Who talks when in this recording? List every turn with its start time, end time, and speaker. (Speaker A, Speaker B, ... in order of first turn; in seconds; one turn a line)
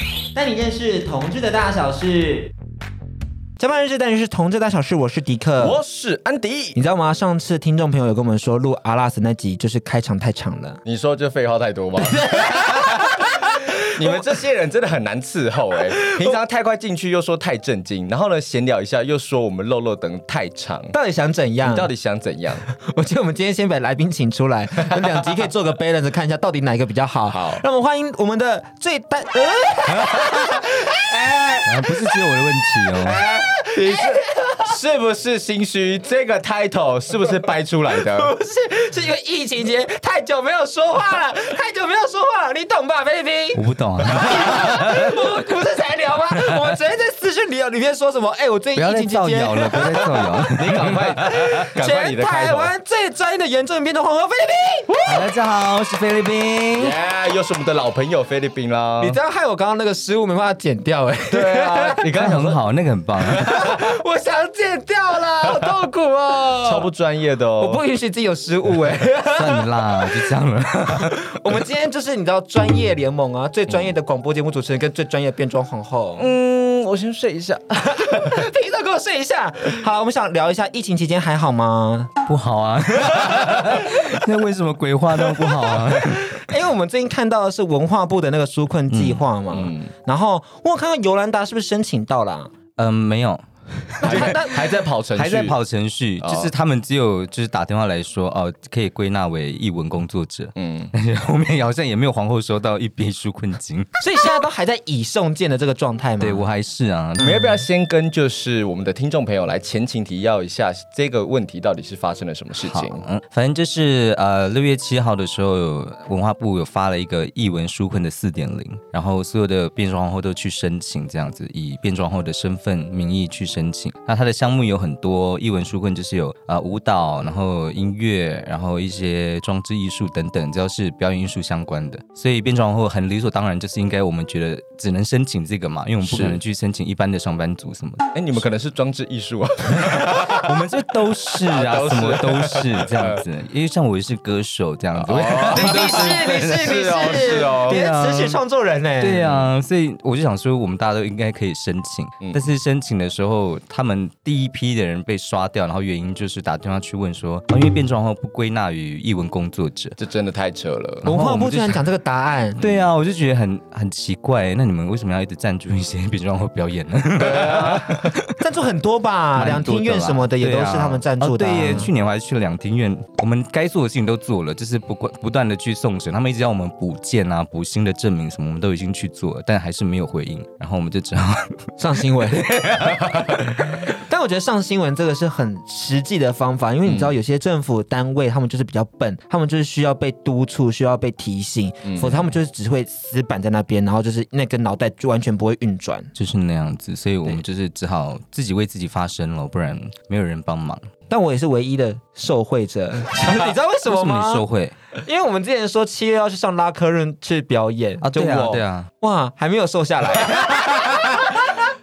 Speaker A: 0.3-2.5
Speaker A: 3.6-5.8
Speaker B: 5.6-6.8
Speaker A: 6.8-10.8
Speaker B: 10.8-13.3
Speaker A: 12.0-13.6
Speaker B: 13.8-20.9
Speaker A: 16.0-16.4
Speaker A: 20.9-21.9
Speaker B: 21.6-22.6
Speaker A: 22.7-32.1
Speaker B: 27.3-27.6
Speaker C: 31.6-33.2
Speaker A: 33.0-34.6
Speaker B: 33.3-38.3
Speaker A: 38.1-55.0
Speaker C: 43.5-45.0
Speaker C: 48.8-51.5
Speaker B: 50.5-52.7
Speaker C: 55.0-57.0
Speaker B: 56.8-59.2
Speaker A: 59.0-62.0
Speaker B: 61.3-62.6
Speaker C: 62.0-63.7
Speaker A: 63.5-66.9
Speaker B: 66.6-67.8
Speaker A: 67.6-70.3
Speaker C: 69.2-71.3
Speaker A: 71.0-76.3
Speaker B: 76.2-78.5
Speaker A: 77.9-82.1
Speaker C: 82.3-86.4
Speaker A: 86.1-92.5
Speaker C: 88.9-89.2
Speaker B: 89.5-89.9
Speaker C: 92.8-103.9
Speaker A: 94.0-94.6
Speaker B: 94.0-95.6
Speaker B: 96.2-96.5
Speaker B: 100.5-100.9
Speaker A: 104.0-106.4
Speaker C: 106.2-107.6
Speaker B: 107.2-113.0
Speaker C: 112.6-138.1
Speaker B: 136.0-136.4
Speaker B: 138.1-140.5
Speaker C: 139.8-148.4
Speaker B: 141.5-143.2
Speaker B: 144.9-147.8
Speaker A: 145.5-149.2
Speaker C: 149.0-160.0
Speaker B: 149.2-149.5
Speaker B: 160.0-161.1
Speaker C: 161.0-161.8
Speaker A: 161.0-162.6
Speaker C: 162.6-168.2
Speaker B: 162.6-162.9
Speaker B: 167.2-168.2
Speaker A: 168.3-171.9
Speaker C: 169.3-183.8
Speaker A: 181.8-182.5
Speaker A: 183.9-196.1
Speaker B: 186.8-187.1
Speaker B: 191.8-192.3
Speaker C: 196.2-200.9
Speaker A: 201.1-204.4
Speaker C: 203.8-204.8
Speaker A: 204.9-211.6
Speaker C: 208.0-208.9
Speaker B: 210.4-211.2